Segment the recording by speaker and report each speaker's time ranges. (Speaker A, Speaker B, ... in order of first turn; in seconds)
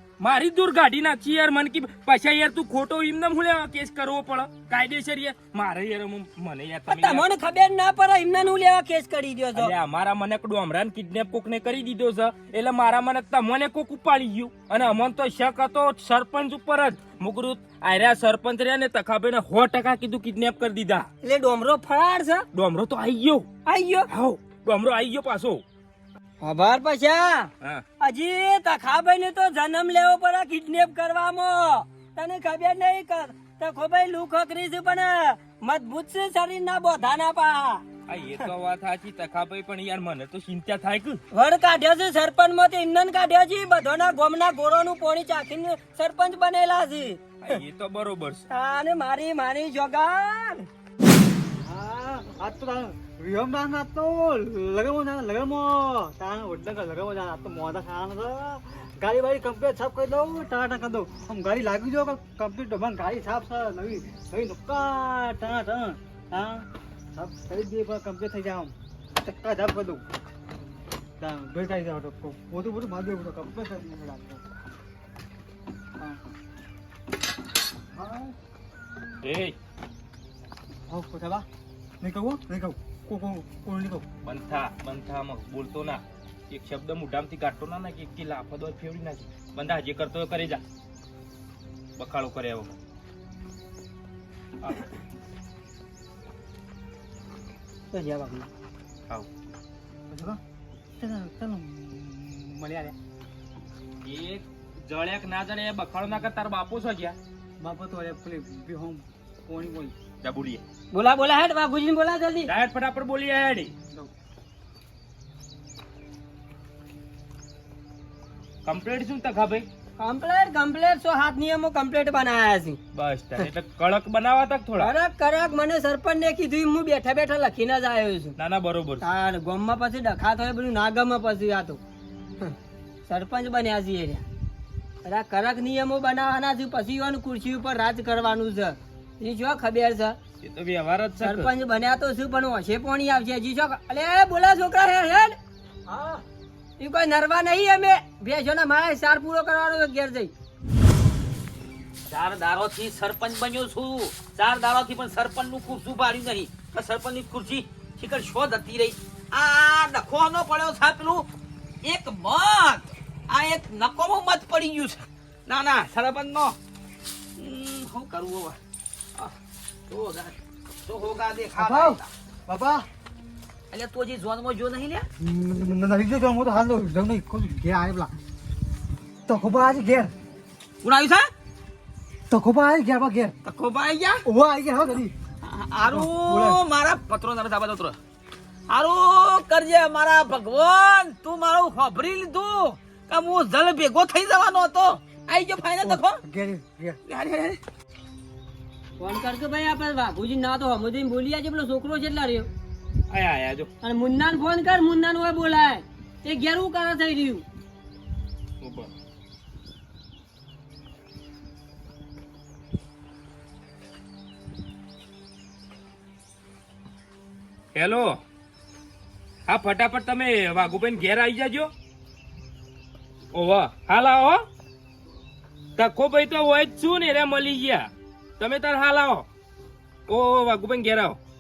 Speaker A: 0.2-7.3, 9.6-21.1, 22.5-23.5, 24.1-25.6, 38.1-41.2, 47.4-48.4, 79.2-79.6, 84.2-90.6, 92.0-92.8, 104.0-107.2, 110.2-110.6, 112.5-113.7, 118.7-119.7, 123.0-124.9, 128.4-129.0, 140.4-141.5, 203.1-203.7, 208.6-208.9, 217.8-218.2, 219.5-221.7, 223.3-224.4, 225.8-227.9, 228.4-229.3, 230.1-231.2
Speaker B: 6.9-9.7, 21.2-22.4, 23.7-24.1, 26.4-37.8, 41.3-47.2, 48.5-50.7, 97.9-98.5, 110.9-112.5, 120.0-122.8, 124.8-128.3, 129.0-131.8, 133.1-134.2, 135.1-140.2, 141.2-145.4, 145.9-146.2, 146.8-150.3, 199.0-202.5, 203.8-207.4
Speaker C: 51.6-70.0, 71.2-74.4, 77.9-78.3, 80.9-81.5, 82.0-84.1, 100.1-100.4, 101.0-103.0, 107.6-109.9, 171.6-172.9, 175.2-178.1, 179.3-180.1, 182.3-183.3, 184.2-185.1, 185.8-186.6, 195.8-197.0
Speaker D: 152.1-161.3, 161.8-166.6, 167.4-168.6, 169.9-172.1, 173.7-175.1, 180.8-181.3, 183.4-184.3, 185.4-188.0, 188.7-196.2, 197.1-197.6